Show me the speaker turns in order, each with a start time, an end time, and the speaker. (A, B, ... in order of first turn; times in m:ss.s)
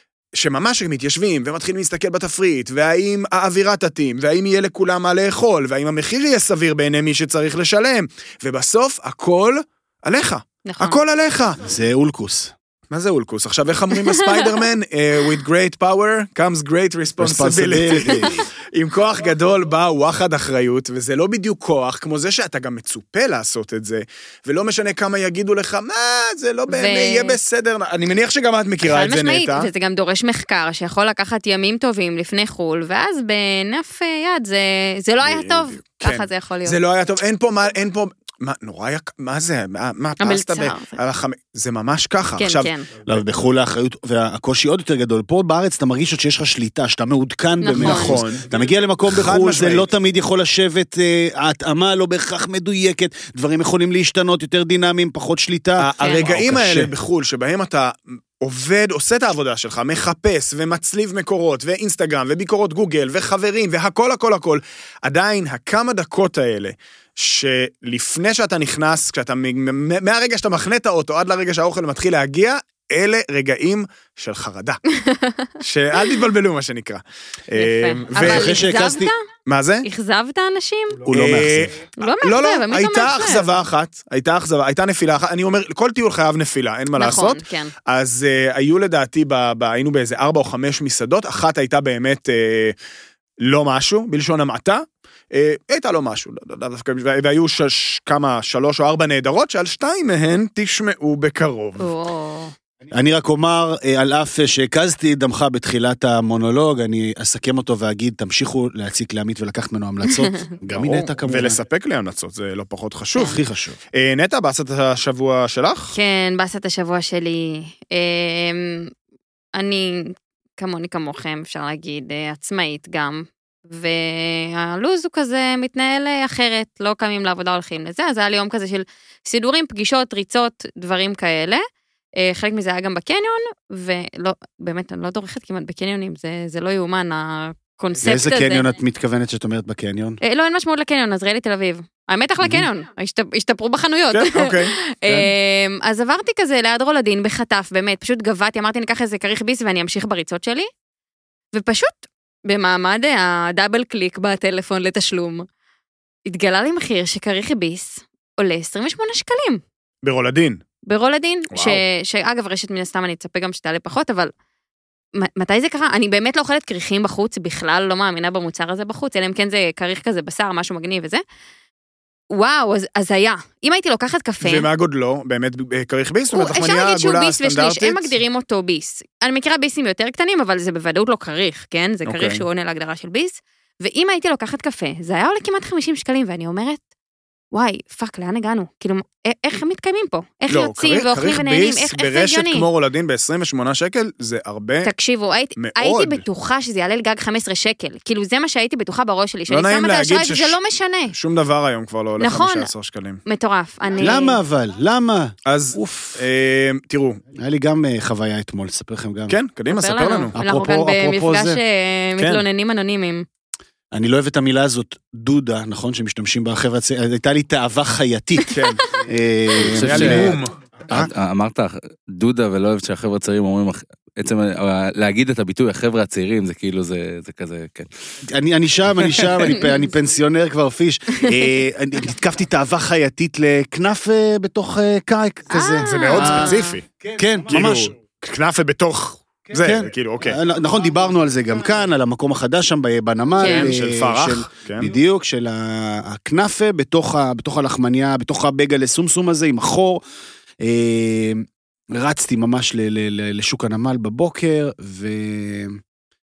0:00.3-0:11.6 A
0:10.6-0:11.0 B
0:11.6-0:12.5 C
0:12.9-0:29.7 A
0:14.0-0:14.5 B
0:17.2-0:18.4 C
0:26.7-0:27.4 B
0:28.8-0:36.8 B
0:35.2-0:42.7 A
0:40.2-0:41.0 B
0:42.4-0:42.9 B
0:43.0-0:56.9 C
0:47.6-0:48.2 B
0:47.7-0:48.5 A
0:49.1-0:49.9 A
0:55.8-1:14.8 A
0:56.0-0:56.3 B
1:14.9-1:15.5 B
1:15.6-1:18.6 A
1:17.6-1:19.2 B
1:18.1-1:19.1 C
1:19.5-1:19.8 A
1:19.8-1:21.1 B
1:21.1-1:21.7 C
1:21.1-1:32.7 A
1:22.0-1:23.5 B
1:27.0-1:27.7 B
1:33.4-1:41.9 A
1:41.8-1:42.5 B
1:42.9-1:51.6 C
1:50.7-1:53.4 A
1:53.2-1:53.8 C
1:53.9-1:56.0 A
1:55.9-1:58.9 B
1:59.6-2:11.6 B
2:12.2-2:18.7 B
2:18.0-2:20.2 C
2:20.2-2:30.7 B
2:24.1-2:25.3 A
2:31.5-2:35.4 B
2:36.3-2:39.6 B
2:40.0-2:40.6 A
2:40.9-2:44.3 B
2:41.5-2:41.8 A
2:45.2-2:51.2 B
2:52.3-2:54.7 B
2:54.4-2:58.2 A
2:56.3-3:06.8 B
3:02.0-3:02.4 A
3:07.5-3:12.7 B
3:10.5-3:14.9 A
3:14.8-3:21.1 B
3:15.6-3:16.2 A
3:19.5-3:20.6 A
3:21.1-3:23.2 A
3:22.2-3:22.7 B
3:23.2-3:24.4 B
3:24.0-3:26.2 C
3:25.4-3:27.2 A
3:27.3-3:29.4 C
3:29.3-3:30.3 A
3:29.7-3:33.2 B
3:30.4-3:31.6 C
3:32.2-3:32.4 A
3:33.9-3:41.1 C
3:38.5-3:38.9 A
3:39.6-3:47.9 D
3:39.7-3:40.5 A
3:48.3-3:57.9 C
3:49.0-3:49.4 D
3:49.5-3:49.8 B
3:55.5-3:56.8 B
3:55.8-3:56.8 A
3:57.5-4:00.4 A
3:59.5-4:10.0 C
4:03.4-4:03.7 B
4:03.4-4:04.9 A
4:10.6-4:15.8 C